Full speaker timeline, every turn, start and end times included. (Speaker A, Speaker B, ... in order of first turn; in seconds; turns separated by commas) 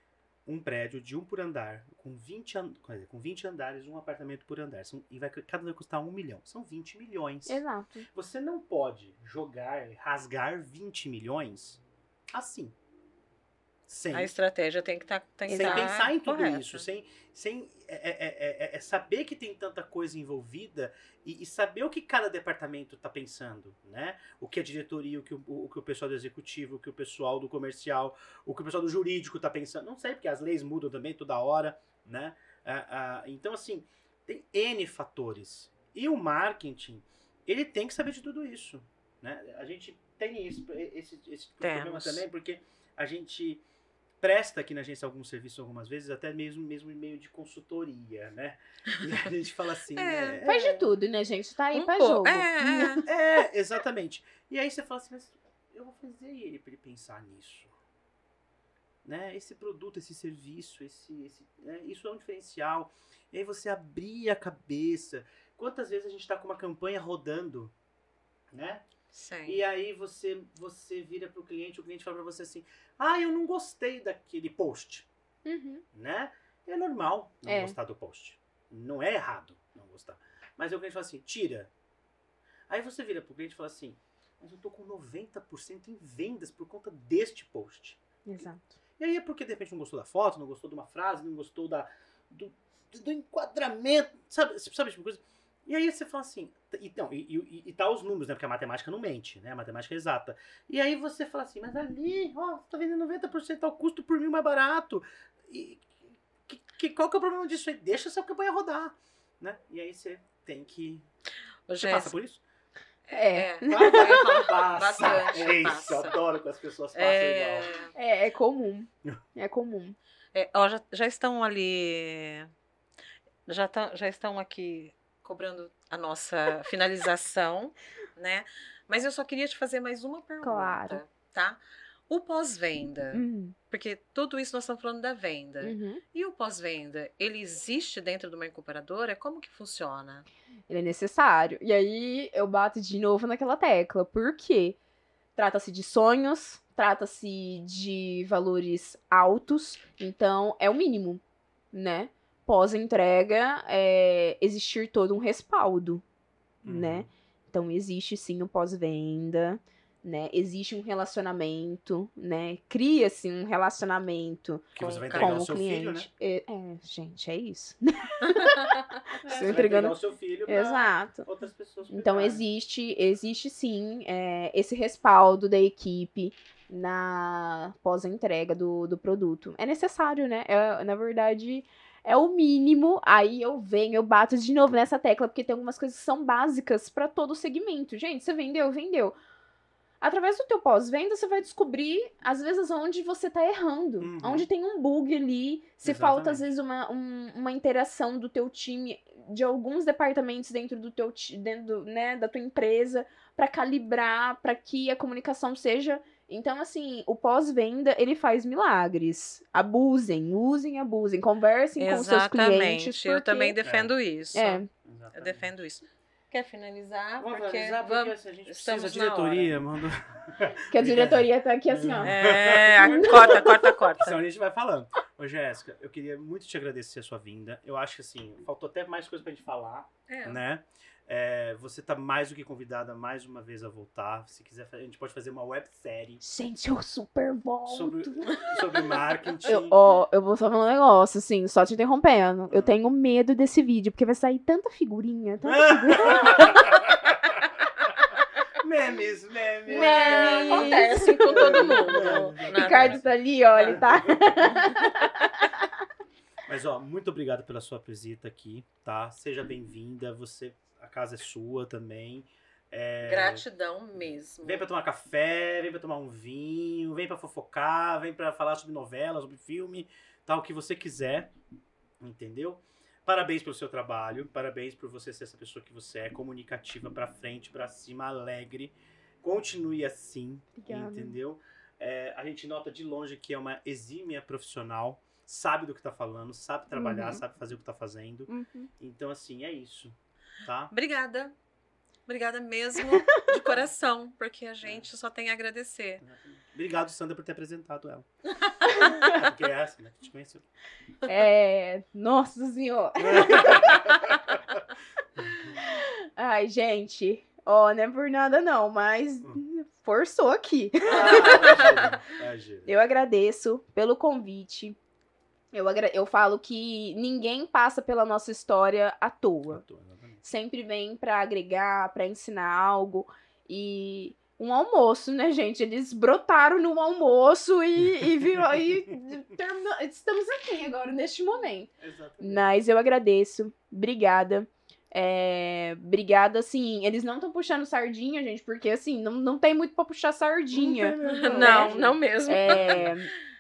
Speaker A: 0.5-11.8, Speaker B: 7.5-8.1, Speaker A: 12.3-12.8, Speaker A: 13.9-14.3, Speaker C: 14.1-16.8, Speaker B: 15.5-15.9, Speaker A: 15.5-43.6, Speaker C: 41.6-42.2, Speaker A: 44.2-50.9, Speaker C: 50.0-50.4, Speaker B: 50.4-53.0, Speaker C: 51.7-53.0, Speaker A: 53.0-57.7, Speaker A: 59.0-67.7, Speaker A: 68.5-68.8, Speaker C: 69.1-69.6, Speaker A: 69.5-75.1, Speaker B: 75.5-75.8, Speaker A: 75.9-81.7, Speaker B: 77.5-77.8, Speaker A: 82.7-88.0, Speaker B: 88.3-88.8, Speaker A: 89.0-111.0, Speaker C: 111.7-112.2, Speaker A: 111.8-112.4, Speaker C: 113.1-116.2, Speaker B: 113.1-114.5, Speaker A: 113.7-117.7, Speaker C: 117.0-117.9, Speaker B: 118.0-120.0, Speaker C: 120.3-122.5, Speaker C: 123.5-140.3, Speaker B: 130.4-131.0, Speaker B: 133.1-133.6, Speaker B: 135.6-136.0, Speaker B: 140.7-144.8, Speaker B: 145.4-151.2, Speaker B: 151.7-156.0, Speaker A: 156.6-157.1, Speaker B: 156.6-171.3, Speaker A: 164.7-166.1, Speaker C: 164.8-165.5, Speaker C: 168.3-168.8, Speaker A: 169.2-172.4, Speaker B: 171.9-189.2, Speaker B: 190.0-213.6, Speaker A: 194.0-194.5, Speaker A: 195.8-196.5, Speaker C: 211.8-214.6, Speaker A: 213.6-213.9, Speaker B: 214.3-214.7, Speaker A: 214.8-215.5, Speaker C: 215.1-219.6, Speaker A: 217.2-236.2, Speaker B: 220.7-222.2, Speaker C: 222.0-224.2, Speaker B: 222.8-223.6, Speaker C: 230.1-230.4, Speaker B: 236.2-238.5, Speaker A: 237.7-239.8, Speaker C: 238.3-239.1, Speaker B: 239.5-246.9, Speaker A: 245.4-247.4, Speaker A: 248.6-253.1, Speaker B: 249.7-255.6, Speaker C: 249.7-253.8, Speaker A: 253.7-254.3, Speaker A: 256.5-263.4, Speaker C: 263.0-264.7, Speaker A: 264.0-271.3, Speaker A: 272.0-290.7, Speaker B: 280.6-281.2, Speaker B: 286.7-287.2, Speaker B: 288.3-288.7, Speaker C: 290.7-291.3, Speaker C: 292.1-296.0, Speaker B: 292.9-293.3, Speaker A: 296.0-298.1, Speaker C: 298.4-299.1, Speaker B: 298.7-299.2, Speaker A: 298.8-300.4, Speaker B: 301.0-304.2, Speaker A: 303.0-304.6, Speaker A: 305.2-305.6, Speaker B: 305.3-311.8, Speaker A: 310.8-312.7, Speaker C: 311.3-311.8, Speaker B: 312.6-314.8, Speaker B: 315.5-319.6, Speaker A: 319.5-320.2, Speaker B: 320.2-343.1, Speaker A: 328.0-328.7, Speaker A: 331.8-332.5, Speaker A: 340.5-342.9, Speaker C: 341.1-343.0